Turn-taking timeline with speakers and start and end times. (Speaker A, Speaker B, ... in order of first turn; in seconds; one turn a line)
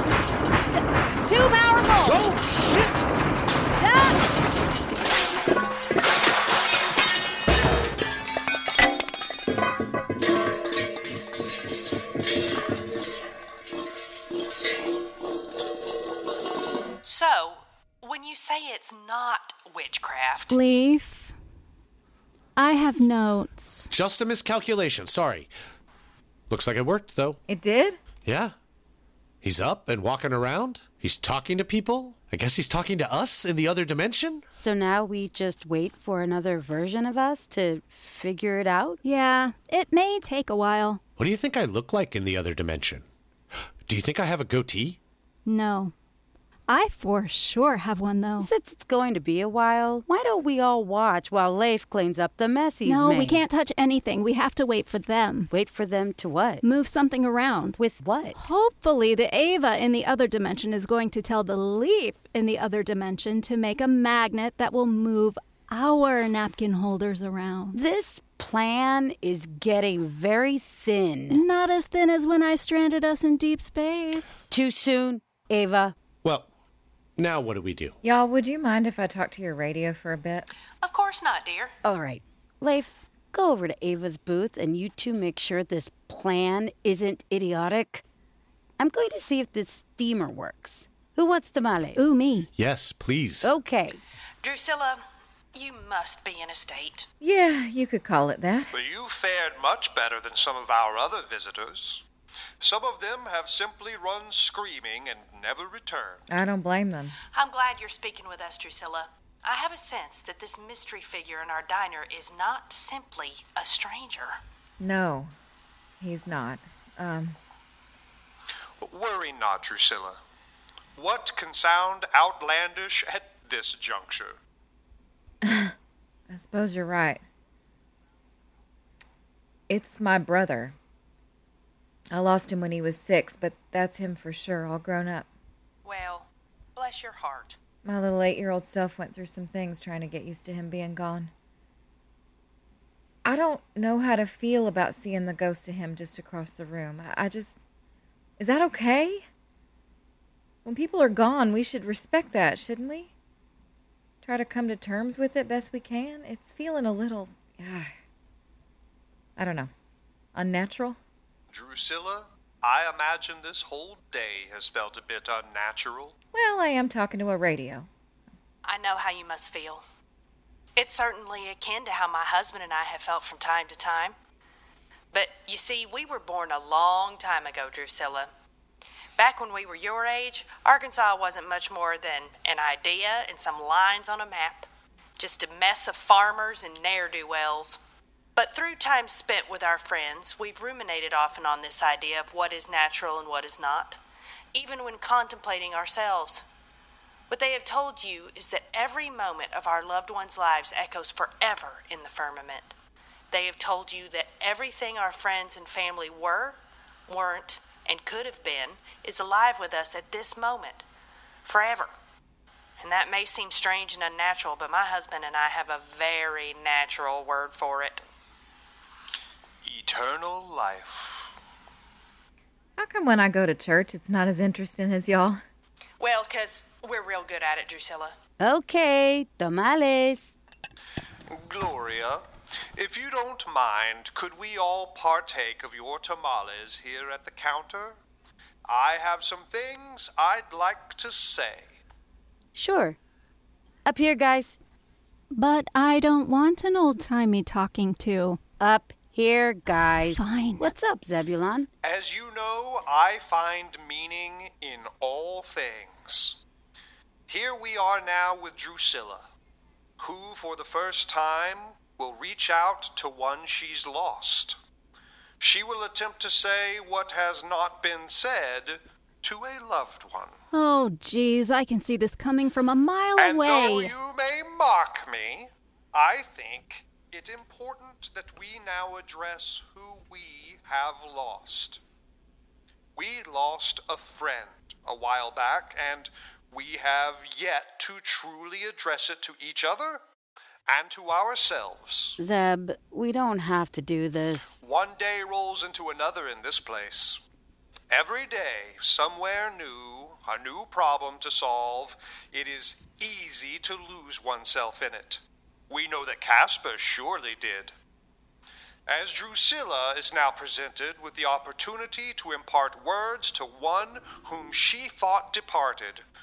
Speaker A: 1.2-2.2
Speaker B: 2.0-3.0
Speaker A: 3.8-4.2
Speaker C: 17.0-20.6
Speaker A: 20.5-21.3
Speaker A: 22.6-23.9
Speaker B: 23.9-25.5
Speaker B: 26.5-27.4
Speaker D: 27.5-28.0
Speaker B: 28.2-28.5
Speaker B: 29.4-34.4
Speaker E: 34.5-39.0
Speaker A: 39.0-41.0
Speaker B: 41.2-43.0
Speaker B: 43.9-45.0
Speaker A: 45.5-45.9
Speaker A: 46.7-48.5
Speaker E: 48.4-53.4
Speaker A: 52.8-55.5
Speaker E: 55.5-56.6
Speaker A: 56.6-57.8
Speaker E: 57.8-58.4
Speaker A: 58.3-67.8
Speaker E: 67.7-71.4
Speaker A: 71.3-74.5
Speaker E: 74.5-75.9
Speaker B: 76.2-76.5
Speaker B: 77.2-78.0
Speaker D: 78.0-80.5
Speaker C: 80.8-81.7
Speaker E: 81.8-88.0
Speaker E: 88.8-92.0
Speaker A: 92.0-92.5
Speaker B: 92.5-93.5
Speaker E: 93.4-94.0
Speaker C: 94.4-95.0
Speaker C: 95.5-97.0
Speaker D: 97.2-98.7
Speaker F: 98.7-102.0
Speaker F: 102.6-106.2
Speaker D: 106.3-107.2
Speaker C: 107.3-114.4
Speaker D: 114.8-115.3
Speaker D: 116.0-117.4
Speaker F: 118.8-120.2
Speaker F: 121.0-124.4
Speaker D: 125.4-125.7
Speaker D: 126.3-127.2
Speaker D: 129.7-130.7
Speaker D: 132.1-135.3
Speaker C: 135.8-137.6
Speaker D: 137.8-141.3
Speaker D: 143.2-147.6
Speaker D: 148.4-149.2
Speaker D: 150.6-153.1
Speaker D: 154.2-157.9
Speaker D: 159.4-159.7
Speaker D: 160.3-161.0
Speaker F: 161.5-166.1
Speaker D: 166.3-167.9
Speaker C: 168.6-169.8
Speaker C: 170.8-174.2
Speaker C: 175.1-178.3
Speaker C: 179.2-187.8
Speaker C: 188.3-194.0
Speaker C: 194.5-196.4
Speaker C: 197.3-202.7
Speaker C: 203.3-210.8
Speaker C: 211.4-211.9
Speaker C: 212.8-218.0
Speaker F: 219.6-221.3
Speaker D: 222.8-225.4
Speaker C: 226.0-228.2
Speaker E: 228.4-230.3
Speaker F: 231.3-232.2
Speaker F: 232.7-238.0
Speaker F: 238.7-241.8
Speaker E: 242.5-243.0
Speaker E: 243.8-244.6
Speaker A: 245.3-248.4
Speaker E: 248.6-251.7
Speaker A: 250.1-250.7
Speaker F: 251.8-256.4
Speaker F: 257.3-259.2
Speaker F: 260.0-264.6
Speaker F: 265.4-270.4
Speaker A: 270.5-273.9
Speaker F: 273.2-281.8
Speaker F: 282.9-290.0
Speaker F: 290.7-292.2
Speaker E: 292.2-294.6
Speaker F: 294.6-297.2
Speaker F: 297.9-307.7
Speaker F: 308.9-316.0